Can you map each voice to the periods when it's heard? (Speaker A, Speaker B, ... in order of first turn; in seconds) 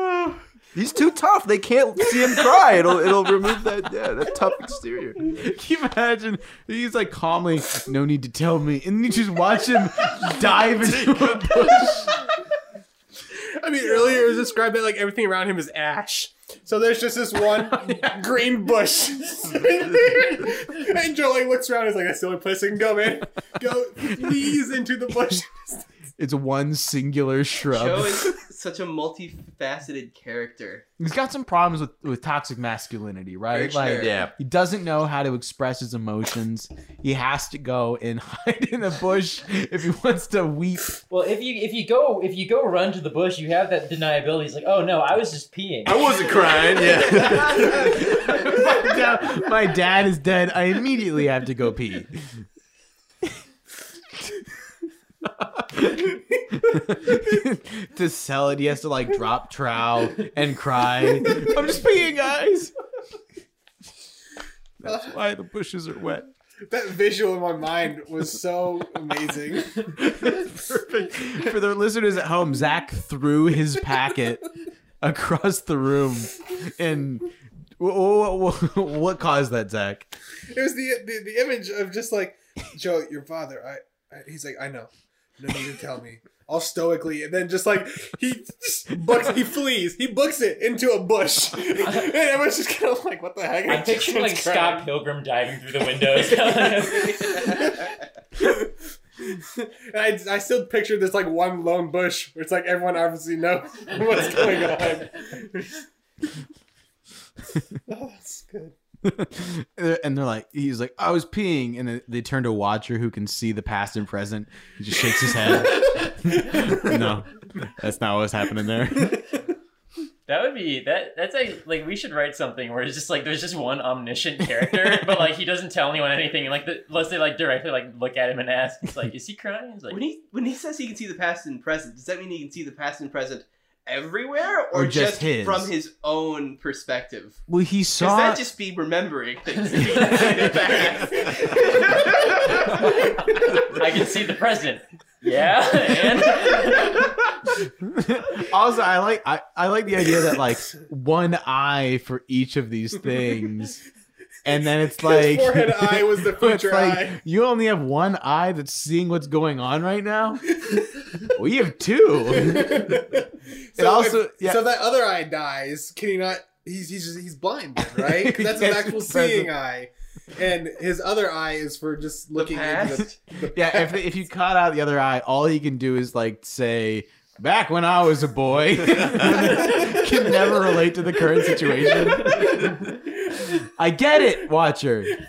Speaker A: 0.7-5.2, 34.0-34.3, 45.9-48.0
Speaker B: 5.3-12.2, 26.2-28.3, 31.0-40.9, 47.8-52.2, 55.4-62.7, 64.8-66.3, 69.9-80.1, 109.0-119.2, 134.7-135.7, 137.5-138.4, 140.0-140.8, 147.8-153.8, 154.4-160.5, 161.2-163.0, 163.8-164.6, 167.8-169.5, 173.5-182.8, 183.6-185.1
Speaker C: 13.3-25.9, 66.7-70.0, 80.5-94.9, 97.1-105.8, 107.9-108.7, 155.0-157.2, 162.3-174.0, 181.8-182.2
Speaker D: 27.7-30.9, 33.5-34.1, 96.9-97.8, 129.9-137.4, 138.0-142.8, 172.3-173.2
Speaker E: 41.1-46.4, 93.7-97.5, 120.3-130.0, 142.7-147.1